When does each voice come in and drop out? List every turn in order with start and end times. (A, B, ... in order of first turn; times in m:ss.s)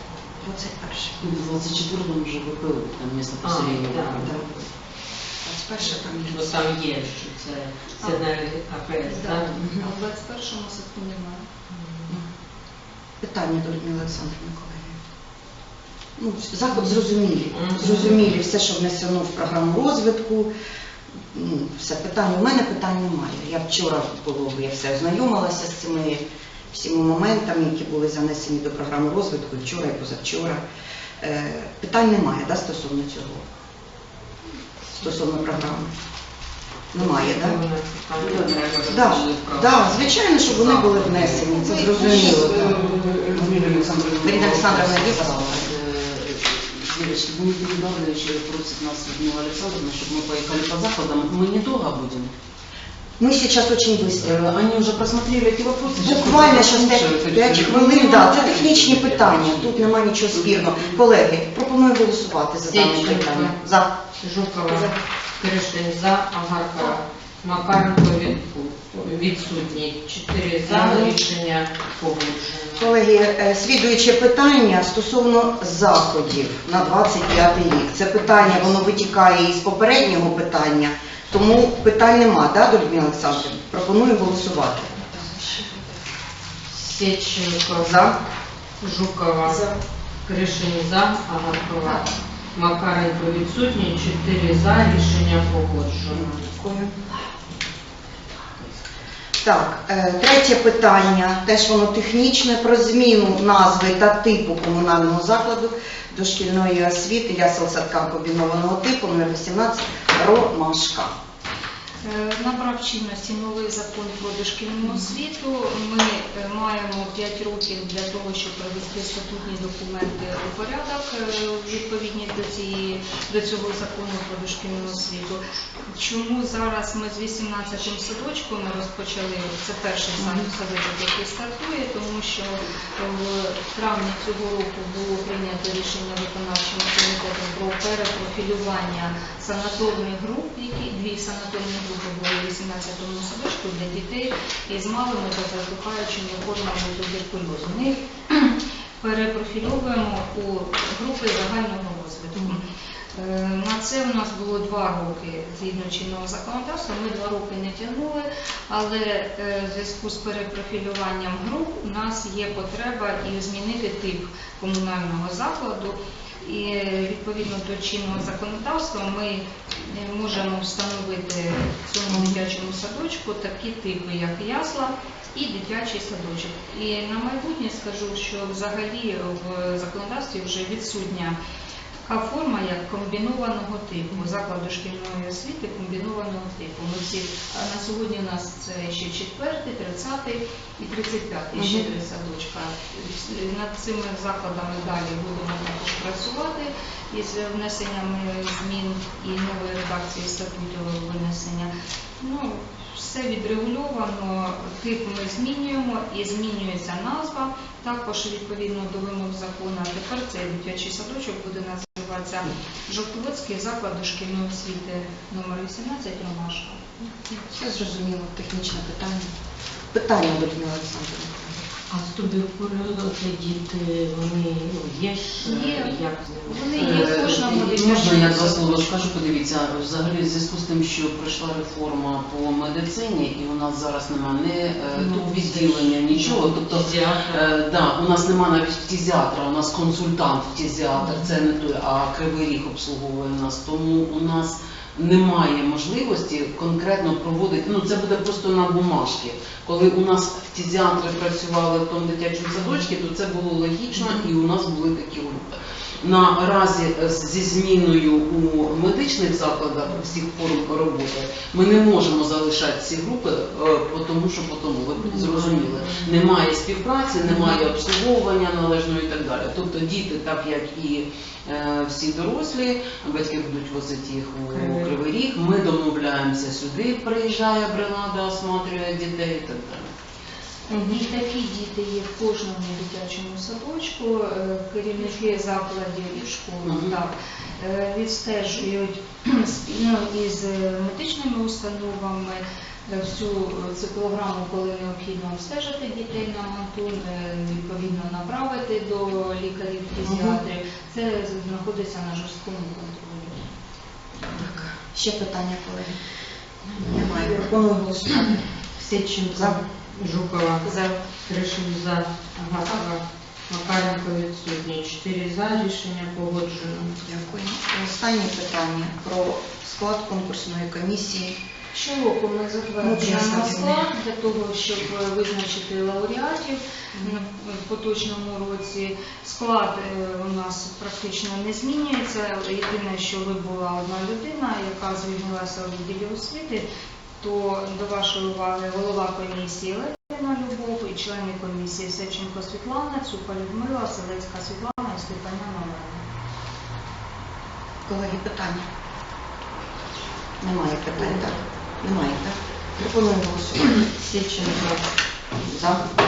0:00.4-0:01.7 A
0:01.2-0:04.5 B
0:03.4-0:04.4 C
0:05.4-0:06.6 A
0:05.8-0:09.7 C
0:09.0-0:11.5 D
0:09.6-0:09.9 A
0:11.8-0:12.1 C
0:13.2-0:15.0 A
0:16.2-0:20.5 A
0:17.5-0:18.2 C
0:21.3-0:30.6 A
0:31.2-0:33.5 A
0:35.0-0:35.9 A
0:36.9-0:37.6 A
0:37.0-0:43.3 C
0:38.2-0:38.9 B
0:38.9-0:45.7 A
0:40.7-0:52.3 B
0:42.0-0:42.5 D
0:53.2-0:54.4 A
0:54.2-1:01.0 B
0:56.0-1:03.9 A
1:02.7-1:03.6 C
1:04.2-1:12.9 C
1:10.6-1:11.1 A
1:12.8-1:25.8 A
1:26.7-1:28.0 C
1:27.8-1:28.2 A
1:28.8-1:29.7 C
1:29.4-1:29.7 A
1:30.2-1:36.4 C
1:36.1-1:37.1 A
1:39.4-1:51.1 A
1:52.0-2:05.4 D
2:05.9-2:32.6 D
2:10.2-2:10.5 A
2:33.1-3:01.4 D
2:52.1-2:52.4 A
3:02.0-3:36.8 D
3:11.5-3:11.9 A
3:37.0-3:39.3 A
3:39.9-3:41.6 A
3:41.9-3:47.4 C
3:45.4-3:49.0 D
3:46.7-4:39.9 B
3:55.0-3:57.5 C
4:25.0-4:26.1 C
4:27.2-4:27.6 C
4:34.5-4:34.9 C
4:40.7-5:03.5 D
4:46.6-4:47.0 B
5:00.0-5:00.4 A
5:04.2-5:06.0 A
5:06.7-5:08.4 A
5:08.8-5:17.0 C
5:09.3-5:09.6 A
5:17.0-5:21.4 A
5:21.7-5:36.7 D
5:22.8-5:23.8 A
5:37.2-5:46.0 D
5:47.9-5:48.7 A
5:50.4-5:53.9 A
5:53.9-5:54.8 C
5:55.4-5:55.8 A